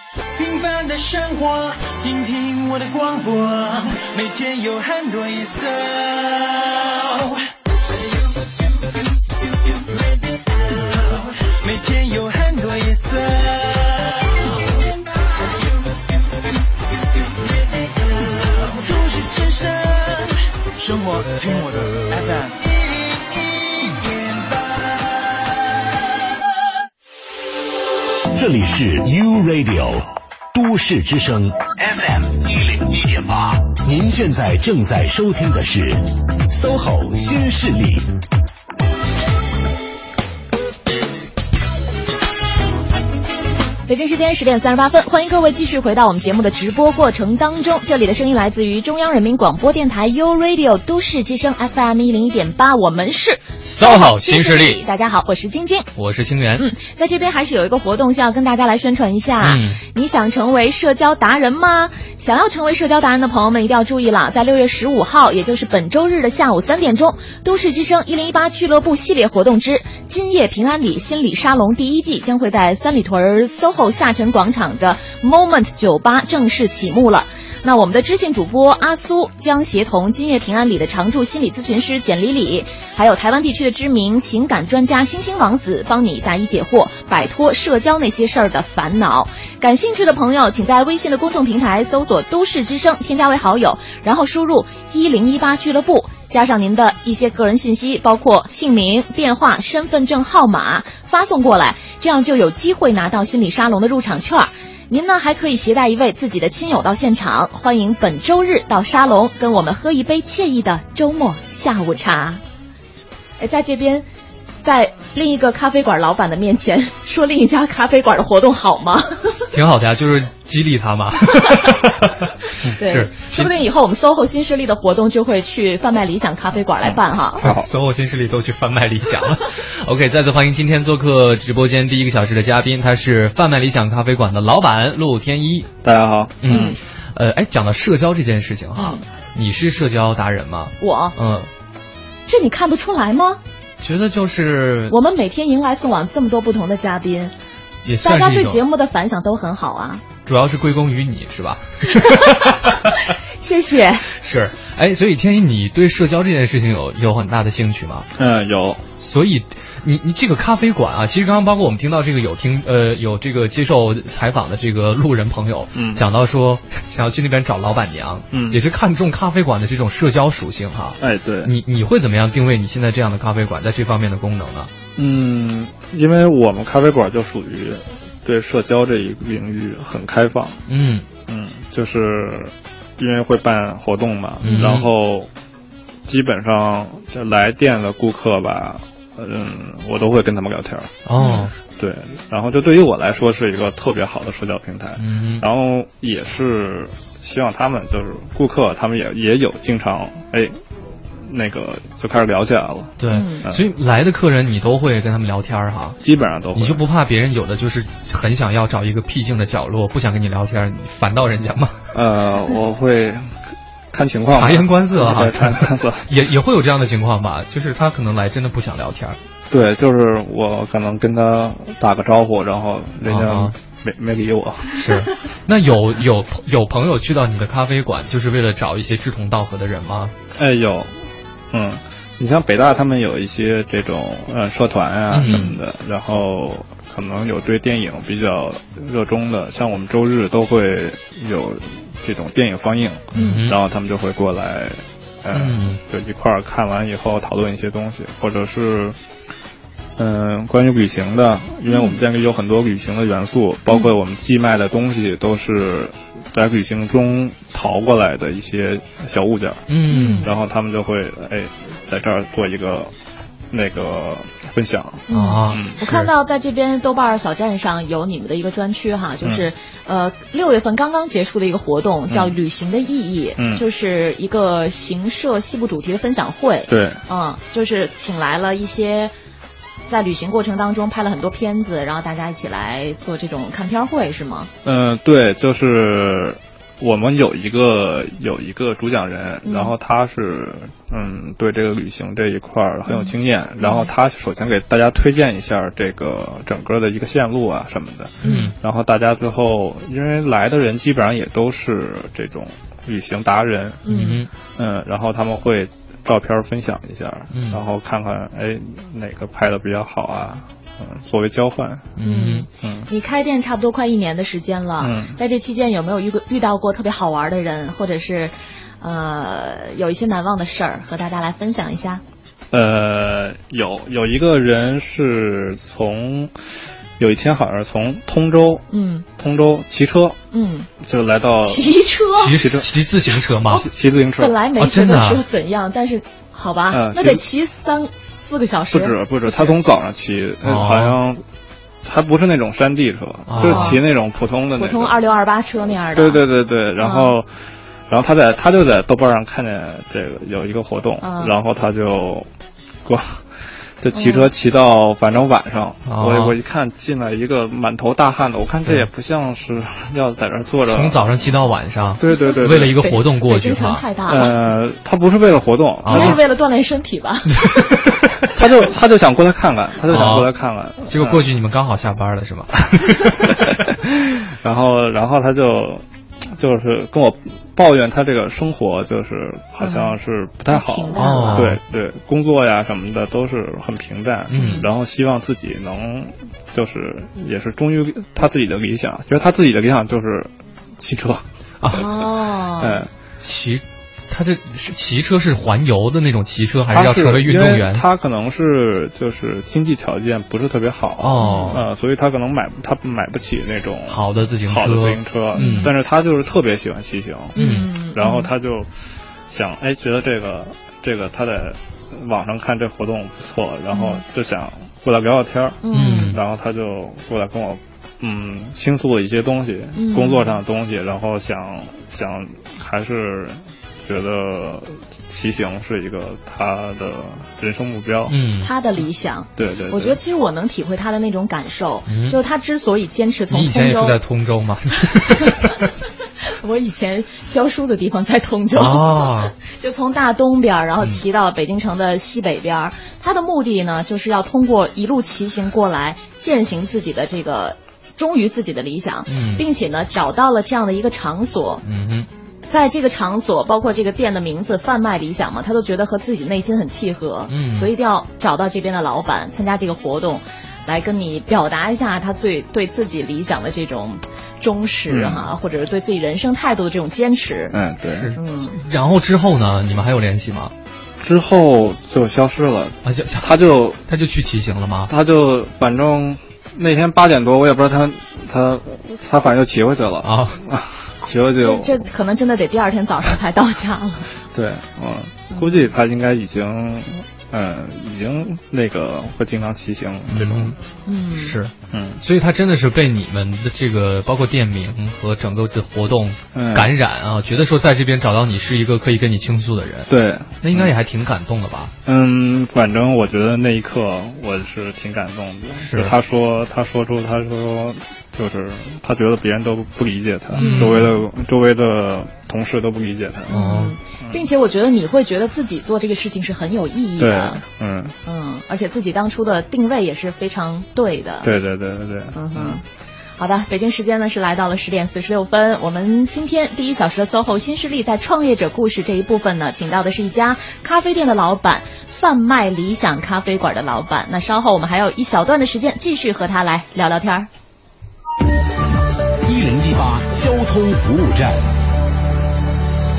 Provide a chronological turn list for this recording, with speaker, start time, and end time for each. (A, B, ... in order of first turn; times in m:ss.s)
0:00.4-0:07.4 A
0:08.0-0:14.6 A
0:15.3-0:25.3 A
0:28.3-0:38.1 B
0:43.9-0:55.9 C
0:53.6-0:54.8 D
0:56.0-0:56.7 D
0:56.6-1:52.4 C
0:59.4-0:59.8 D
1:53.4-1:54.1 C
1:54.6-1:59.1 C
1:59.5-2:03.5 D
2:02.8-2:07.4 C
2:07.4-2:15.7 D
2:07.4-2:07.7 E
2:15.8-2:16.7 E
2:16.4-2:21.5 D
2:16.5-2:16.8 C
2:18.8-2:19.0 C
2:20.8-2:21.2 C
2:22.3-2:23.4 C
2:23.8-2:25.0 D
2:24.9-2:27.3 C
2:27.8-2:28.6 D
2:28.0-2:30.0 C
2:30.2-2:32.9 D
2:33.4-2:34.0 C
2:34.1-2:38.1 D
2:38.2-2:38.8 E
2:39.0-2:54.7 D
2:45.7-2:46.0 E
2:48.3-2:48.6 E
2:51.0-2:51.5 E
2:55.0-3:00.6 E
3:00.7-3:01.1 D
3:01.3-3:05.3 E
3:04.4-3:04.9 D
3:04.4-3:04.7 C
3:06.1-3:10.9 E
3:11.0-3:11.5 D
3:11.2-3:11.5 C
3:11.8-3:20.5 E
3:15.0-3:15.5 D
3:21.2-3:23.6 E
3:23.0-3:26.0 D
3:23.1-3:23.4 C
3:26.0-3:26.8 E
3:26.5-3:31.8 D
3:31.9-3:33.3 E
3:33.9-3:36.1 E
3:34.3-3:39.2 D
3:39.5-3:44.8 E
3:43.0-3:43.5 D
3:44.8-3:50.1 D
3:50.3-3:50.9 E
3:51.5-4:09.0 E
3:55.1-3:55.6 D
4:03.1-4:03.6 D
4:05.3-4:05.8 D
4:10.0-4:19.6 E
4:11.7-4:12.0 C
4:19.7-4:20.3 D
4:19.9-4:20.3 C
4:20.2-4:22.9 E
4:23.5-4:25.7 E
4:25.1-4:39.1 C
4:25.1-4:26.1 D
4:32.1-4:32.3 E
4:36.7-4:37.0 E
4:39.9-4:44.5 C
4:44.6-5:03.8 E
4:49.4-4:49.7 C
4:52.9-4:53.9 C
4:58.2-4:58.5 C
4:58.2-4:58.5 D
5:03.8-5:04.2 C
5:03.8-5:04.3 D
5:04.6-5:12.0 E
5:07.3-5:07.6 D
5:12.0-5:12.5 D
5:12.0-5:22.0 C
5:12.6-5:12.9 E
5:14.8-5:15.2 E
5:22.5-5:26.3 E
5:27.0-5:28.6 E
5:28.7-5:29.0 C
5:29.2-5:30.2 E
5:30.3-5:30.7 C
5:30.8-5:31.7 E
5:31.4-5:32.4 C
5:32.2-5:33.7 D
5:32.2-5:32.7 E
5:33.6-5:34.4 E
5:34.2-5:39.5 C
5:34.6-5:35.2 D
5:36.7-5:37.2 E
5:38.7-5:41.2 E
5:40.4-5:41.0 D
5:41.8-5:45.0 E
5:43.3-5:43.8 D
5:43.4-5:43.8 C
5:44.6-5:46.2 C
5:45.9-5:47.3 E
5:46.8-5:47.1 C
5:47.9-5:52.3 E
5:51.0-5:51.4 C
5:52.8-5:53.2 E
5:53.8-6:01.1 E
5:53.9-5:54.3 C
5:55.9-5:56.3 D
6:00.7-6:03.8 D
6:02.0-6:02.8 E
6:02.2-6:04.3 C
6:04.1-6:06.2 E
6:05.8-6:06.2 D
6:05.9-6:07.4 C
6:07.5-6:08.0 D
6:08.3-6:11.2 E
6:09.9-6:10.3 D
6:10.8-6:13.2 D
6:13.2-6:15.8 E
6:16.4-6:31.2 E
6:19.6-6:19.9 C
6:20.5-6:21.5 C
6:21.0-6:21.6 D
6:24.3-6:24.6 D
6:24.3-6:24.6 C
6:31.6-6:31.9 D
6:31.7-6:32.8 C
6:32.6-6:32.9 E
6:33.2-6:37.8 D
6:36.7-6:48.7 E
6:41.0-6:41.6 D
6:41.2-6:41.6 C
6:43.9-6:45.7 D
6:45.3-6:45.7 C
6:47.3-6:48.3 C
6:47.4-6:47.7 D
6:49.3-7:08.2 E
6:53.7-6:54.0 C
6:55.6-6:56.2 C
6:55.7-6:56.2 D
6:59.8-7:00.4 C
7:08.1-7:08.5 D
7:08.4-7:14.0 C
7:09.4-7:10.0 E
7:11.9-7:12.2 D
7:13.3-7:15.6 D
7:15.2-7:15.5 C
7:16.4-7:31.6 C
7:18.5-7:19.3 D
7:29.1-7:29.4 D
7:31.6-7:32.1 D
7:32.5-7:47.6 C
7:37.3-7:37.7 D
7:44.9-7:45.2 E
7:47.5-7:48.1 E
7:48.0-7:50.5 D
7:48.2-7:48.5 C
7:51.0-7:53.8 E
7:52.8-7:53.3 D
7:53.9-7:54.9 D
7:54.9-8:01.8 E
8:00.0-8:00.4 D
8:01.4-8:04.1 C
8:04.3-8:10.6 E
8:05.3-8:05.7 C
8:10.1-8:10.5 D
8:10.8-8:11.4 C
8:11.1-8:19.9 D
8:11.7-8:12.0 E
8:16.3-8:16.7 E
8:19.9-8:20.7 E
8:20.4-8:21.7 D
8:21.8-8:33.4 E
8:25.6-8:25.9 D
8:30.4-8:30.9 D
8:30.4-8:30.9 C
8:33.3-8:33.7 D
8:33.3-8:37.4 C
8:37.0-8:37.9 E
8:38.0-8:41.3 C
8:41.2-8:42.6 E
8:42.1-8:42.6 C
8:43.2-8:57.3 C
8:59.2-9:01.4 B